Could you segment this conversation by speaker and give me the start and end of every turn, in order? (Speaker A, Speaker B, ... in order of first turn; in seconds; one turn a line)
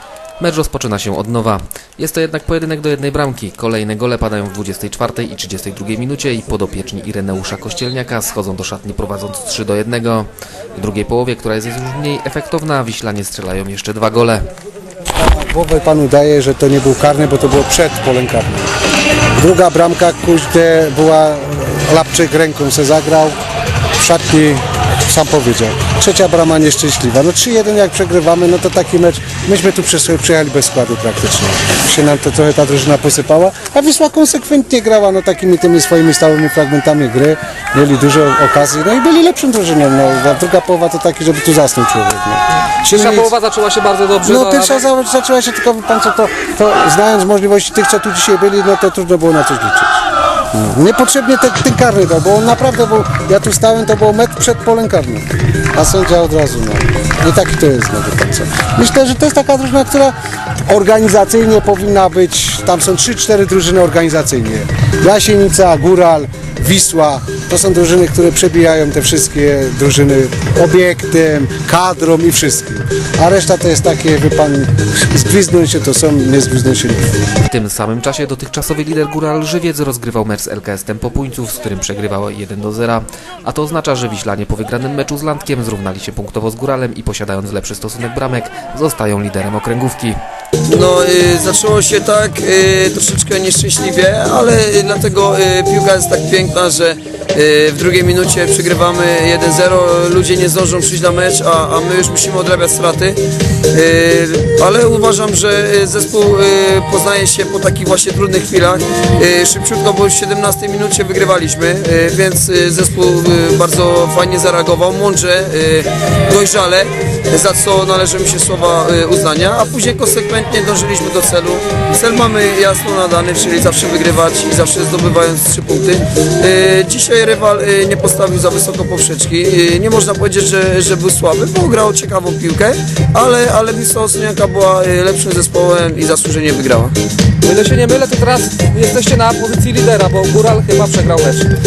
Speaker A: 0.4-14.4
Speaker B: 15.3-18.7
Speaker B: 19.4-23.3
Speaker B: 24.0-43.3
Speaker C: 42.9-44.8
Speaker B: 44.2-49.9
Speaker B: 50.5-60.1
Speaker B: 60.7-77.1
Speaker A: 77.5-90.2
Speaker D: 90.7-103.2
Speaker D: 103.7-136.9
Speaker C: 137.4-141.5